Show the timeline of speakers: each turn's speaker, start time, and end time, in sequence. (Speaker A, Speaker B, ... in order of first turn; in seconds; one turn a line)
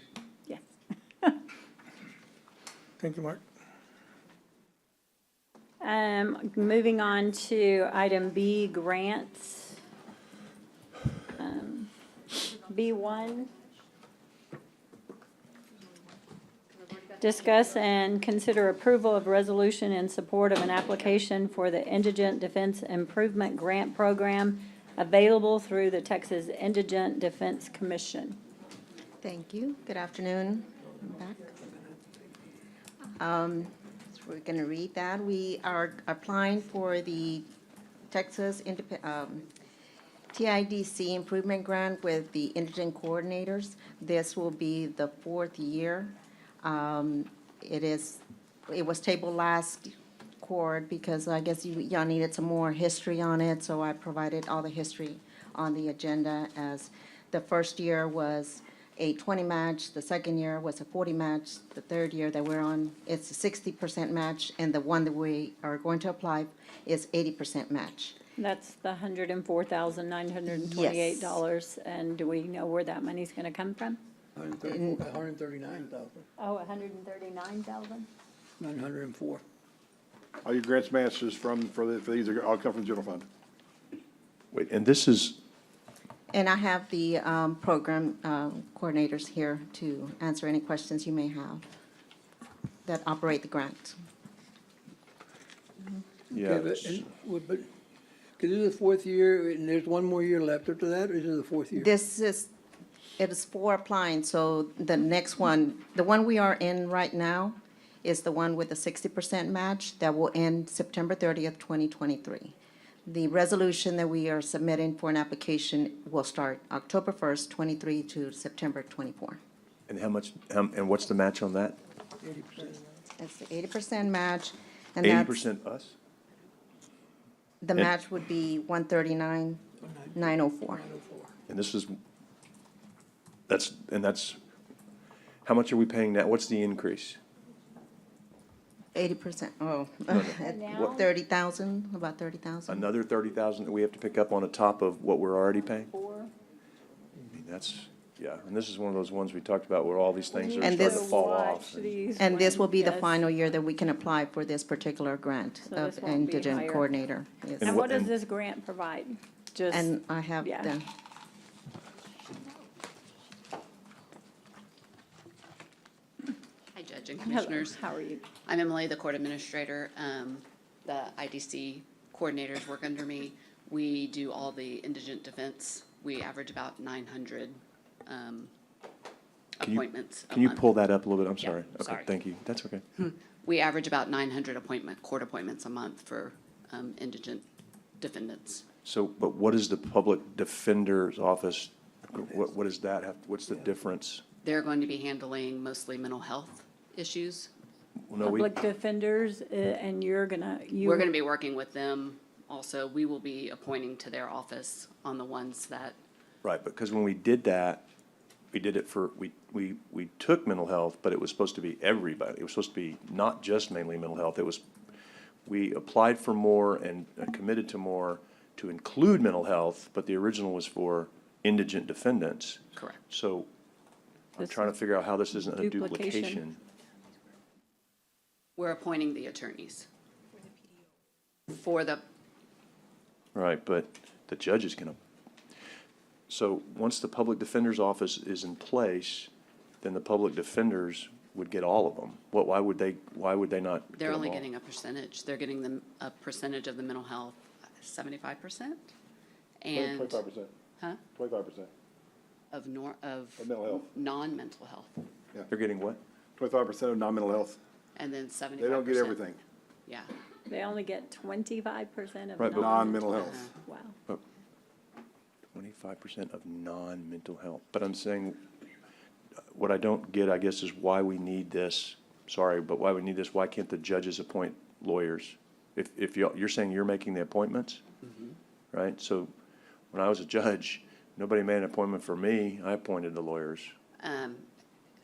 Speaker A: 3.0-3.4
Speaker B: 5.8-9.8
Speaker B: 11.4-11.9
Speaker B: 12.4-13.5
Speaker B: 17.2-28.4
Speaker C: 29.2-31.5
Speaker C: 33.2-37.5
Speaker C: 38.1-39.5
Speaker C: 40.3-68.1
Speaker B: 68.4-74.0
Speaker C: 70.5-71.4
Speaker A: 74.3-76.3
Speaker C: 74.7-75.0
Speaker B: 76.4-78.1
Speaker A: 78.6-79.4
Speaker D: 80.4-83.2
Speaker E: 84.5-85.4
Speaker C: 86.3-91.7
Speaker C: 92.8-94.0
Speaker E: 96.3-97.0
Speaker A: 96.3-97.7
Speaker A: 98.4-101.9
Speaker C: 101.7-102.5
Speaker C: 103.2-112.5
Speaker C: 113.1-119.4
Speaker E: 119.9-121.8
Speaker A: 122.2-122.9
Speaker C: 123.2-125.4
Speaker E: 125.0-125.9
Speaker C: 127.6-129.6
Speaker A: 129.8-131.3
Speaker C: 130.1-130.8
Speaker E: 131.5-131.9
Speaker E: 133.5-134.4
Speaker E: 135.4-137.2
Speaker C: 138.9-142.9
Speaker E: 140.1-141.0
Speaker B: 140.3-141.1
Speaker E: 142.7-145.9
Speaker B: 145.9-146.3
Speaker E: 147.2-151.9
Speaker B: 150.3-153.2
Speaker C: 150.6-151.2
Speaker C: 152.2-157.8
Speaker B: 155.7-156.9
Speaker E: 157.6-158.1
Speaker B: 157.6-160.7
Speaker C: 159.7-160.8
Speaker F: 166.7-167.8
Speaker B: 167.2-168.2
Speaker F: 168.4-178.5
Speaker F: 179.6-180.8
Speaker E: 179.6-182.8
Speaker F: 181.4-182.1
Speaker F: 183.0-187.4
Speaker F: 188.0-188.7
Speaker E: 188.8-194.2
Speaker F: 194.4-197.5
Speaker E: 198.1-198.5
Speaker B: 198.2-201.1
Speaker F: 200.8-206.0
Speaker E: 206.4-207.8
Speaker E: 208.5-214.6
Speaker E: 215.4-223.5
Speaker F: 222.8-223.0
Speaker E: 224.4-226.6
Speaker B: 224.4-224.8
Speaker B: 225.3-226.4
Speaker F: 228.6-229.9
Speaker F: 231.5-232.0
Speaker E: 233.3-235.0
Speaker E: 236.3-239.3
Speaker E: 239.8-244.5
Speaker F: 243.9-248.9
Speaker F: 249.6-250.2
Speaker D: 249.7-250.5
Speaker D: 251.1-251.7
Speaker F: 252.5-255.1
Speaker D: 253.4-253.9
Speaker E: 255.5-256.0
Speaker D: 256.4-257.6
Speaker F: 257.9-259.3
Speaker D: 258.6-259.4
Speaker F: 259.9-260.1
Speaker B: 260.5-263.9
Speaker E: 262.4-262.7
Speaker D: 262.5-263.5
Speaker F: 263.1-263.5
Speaker E: 265.5-268.4
Speaker E: 269.5-277.8
Speaker E: 278.7-279.3
Speaker E: 279.9-283.7
Speaker F: 284.0-284.5